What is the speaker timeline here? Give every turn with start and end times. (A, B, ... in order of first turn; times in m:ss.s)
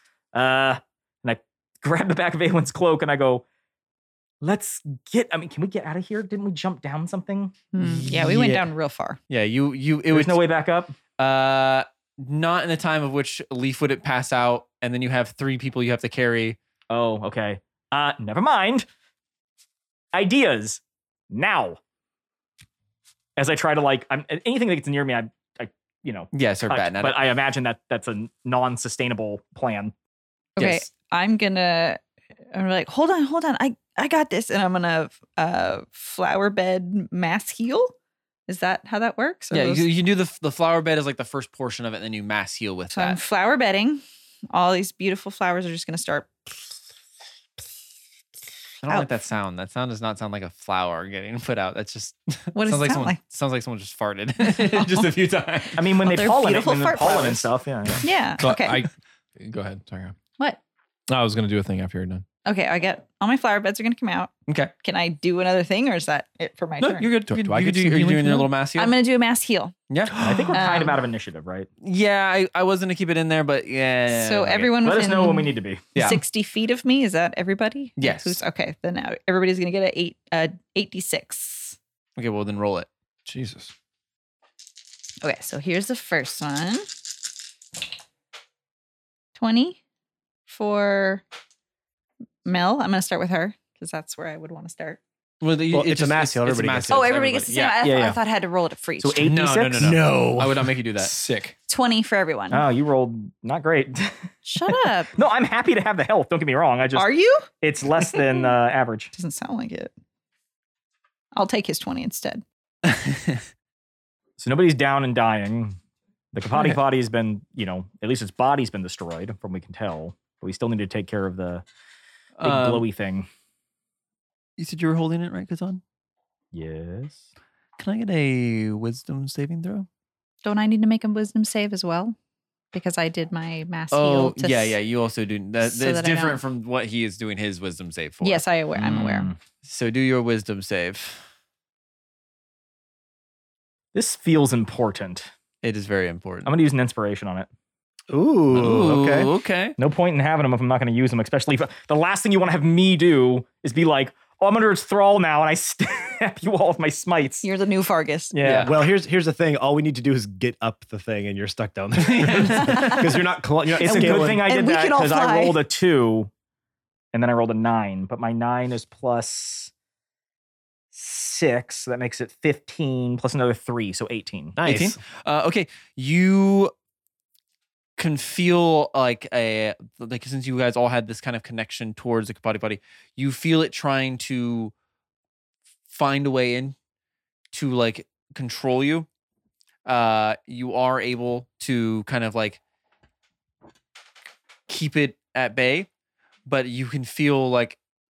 0:00.3-0:03.4 A
0:04.4-0:07.6 A
0:07.7-0:09.2 B
0:07.8-0:08.7 C
0:09.3-0:10.4 C
0:10.1-0:11.0 A
0:11.2-0:16.6 C
0:16.9-0:18.9 A
0:20.1-0:21.8 A
0:23.4-0:29.9 A
0:26.3-0:27.2 C
0:30.6-0:32.0 B
0:30.6-0:30.9 C
0:32.5-0:37.9 B
0:38.5-0:39.9 B
0:39.5-0:43.2 C
0:42.9-0:46.3 B
0:48.8-0:55.8 C
0:52.5-0:53.2 B
0:54.4-0:55.1 B
0:55.8-0:58.0 A
0:55.8-0:57.4 B
0:58.0-0:58.8 B
0:58.4-1:00.2 D
1:01.1-1:02.2 D
1:02.4-1:07.1 B
1:04.5-1:04.7 C
1:06.8-1:09.0 C
1:07.2-1:08.5 D
1:08.8-1:09.8 B
1:09.9-1:10.2 C
1:10.2-1:11.7 A
1:10.5-1:11.0 B
1:11.8-1:14.7 C
1:14.1-1:21.8 B
1:14.8-1:15.9 A
1:15.9-1:16.2 C
1:18.0-1:18.4 C
1:22.2-1:22.9 C
1:23.3-1:23.7 D
1:25.2-1:26.9 B
1:29.4-1:29.8 B
1:30.5-1:31.2 B
1:32.4-1:35.0 B
1:35.4-1:37.8 C
1:35.7-1:37.1 E
1:36.9-1:39.3 B
1:37.8-1:38.2 A
1:39.0-1:40.0 A
1:39.2-1:41.1 C
1:39.8-1:41.6 D
1:41.7-1:42.6 B
1:42.5-1:44.2 A
1:44.4-1:45.1 B
1:44.7-1:49.1 A
1:47.0-1:47.5 B
1:48.0-1:48.5 B
1:49.1-1:49.9 B
1:51.4-1:52.4 B
1:52.8-1:53.4 C
1:54.4-1:55.8 A
1:56.3-2:01.6 A
2:02.4-2:02.8 C
2:02.4-2:03.3 A
2:04.6-2:05.8 C
2:06.5-2:07.2 A
2:07.8-2:09.9 C
2:10.4-2:12.2 B
2:12.7-2:14.8 B
2:13.9-2:21.2 C
2:15.6-2:16.4 B
2:18.2-2:19.3 B
2:23.9-2:25.3 A
2:25.6-2:26.5 C
2:26.4-2:27.5 A
2:28.1-2:29.3 E
2:28.5-2:29.8 C
2:29.8-2:37.5 A
2:37.4-2:38.3 B
2:38.3-2:38.8 A
2:38.4-2:38.7 C
2:38.6-2:44.4 E
2:42.0-2:43.0 C
2:42.4-2:43.1 B
2:43.8-2:46.3 A
2:43.8-2:45.6 B
2:47.1-2:49.7 A
2:50.9-2:54.6 A
2:54.6-2:55.0 E
2:54.6-2:56.7 C
2:58.0-3:04.7 C
3:05.9-3:06.8 C
3:07.5-3:09.1 C
3:09.8-3:12.6 C
3:14.7-3:15.9 C
3:16.5-3:17.8 C